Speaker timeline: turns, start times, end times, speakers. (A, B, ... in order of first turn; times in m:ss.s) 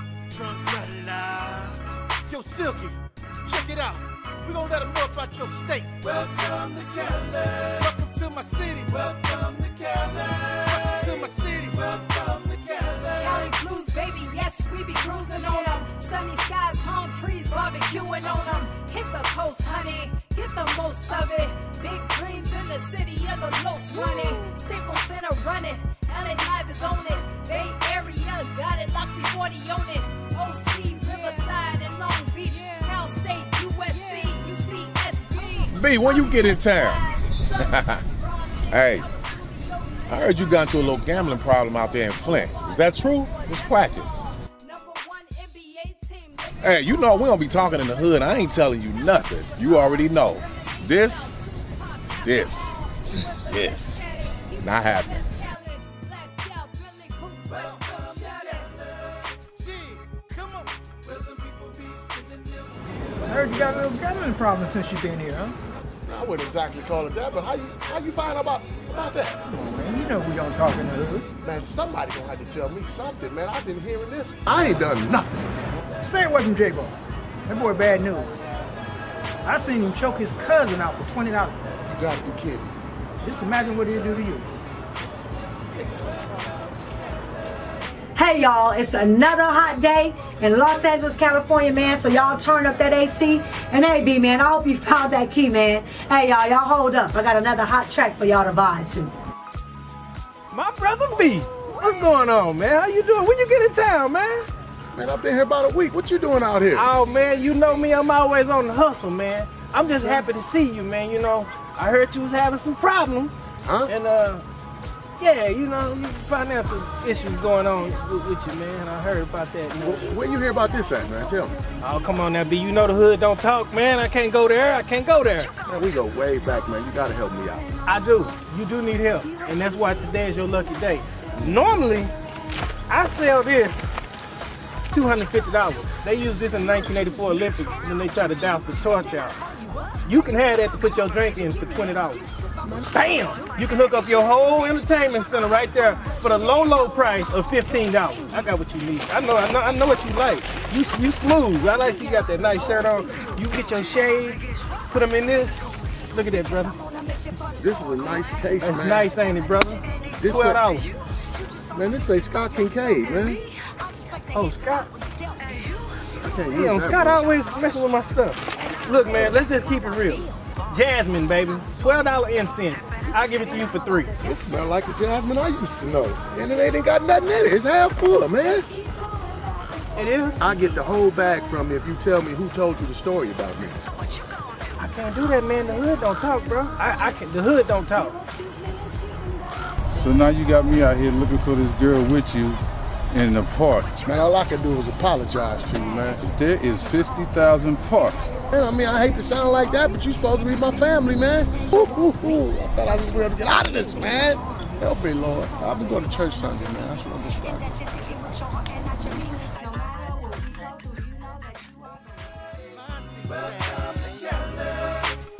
0:00.3-0:13.4 A
0:13.2-0:47.0 B
0:35.7-0:37.0 C
0:37.7-0:38.0 C
0:38.7-0:39.0 C
0:40.1-0:44.1 C
0:46.6-0:51.3 C
0:49.6-0:58.7 B
0:52.2-0:52.8 C
0:53.5-0:54.0 C
0:54.6-0:55.1 C
0:57.7-1:03.6 A
1:03.2-1:05.6 D
1:06.1-1:09.4 E
1:09.5-1:11.2 D
1:11.4-1:15.4 E
1:16.0-1:16.9 D
1:17.5-1:18.3 D
1:19.4-1:21.7 D
1:21.9-1:22.7 E
1:23.2-1:24.5 D
1:28.2-1:39.1 F
1:40.5-1:44.5 G
1:44.9-1:46.9 E
1:46.7-1:53.3 G
1:53.6-1:53.9 E
1:53.9-1:54.4 G
1:55.2-2:00.1 G
1:59.8-2:01.6 E
2:01.8-2:05.5 G
2:05.6-2:07.7 E
2:07.9-2:12.1 G
2:12.9-2:13.9 G
2:14.9-2:19.4 G
2:20.0-2:22.2 G
2:22.8-2:36.8 G
2:37.5-2:39.1 E
2:38.6-2:40.9 G
2:40.2-2:40.6 E
2:41.7-2:43.4 E
2:44.3-2:44.9 G
2:46.2-2:47.2 E
2:46.5-2:54.1 G
2:49.1-2:49.4 E
2:54.2-2:58.7 E
2:59.9-3:00.4 G
3:00.4-3:03.8 E
3:04.8-3:08.2 G
3:09.9-3:12.6 H
3:13.1-3:13.9 H
3:14.0-3:16.2 E
3:16.2-3:18.3 H
3:18.5-3:27.9 E
3:29.5-3:30.9 F
3:32.6-3:35.2 A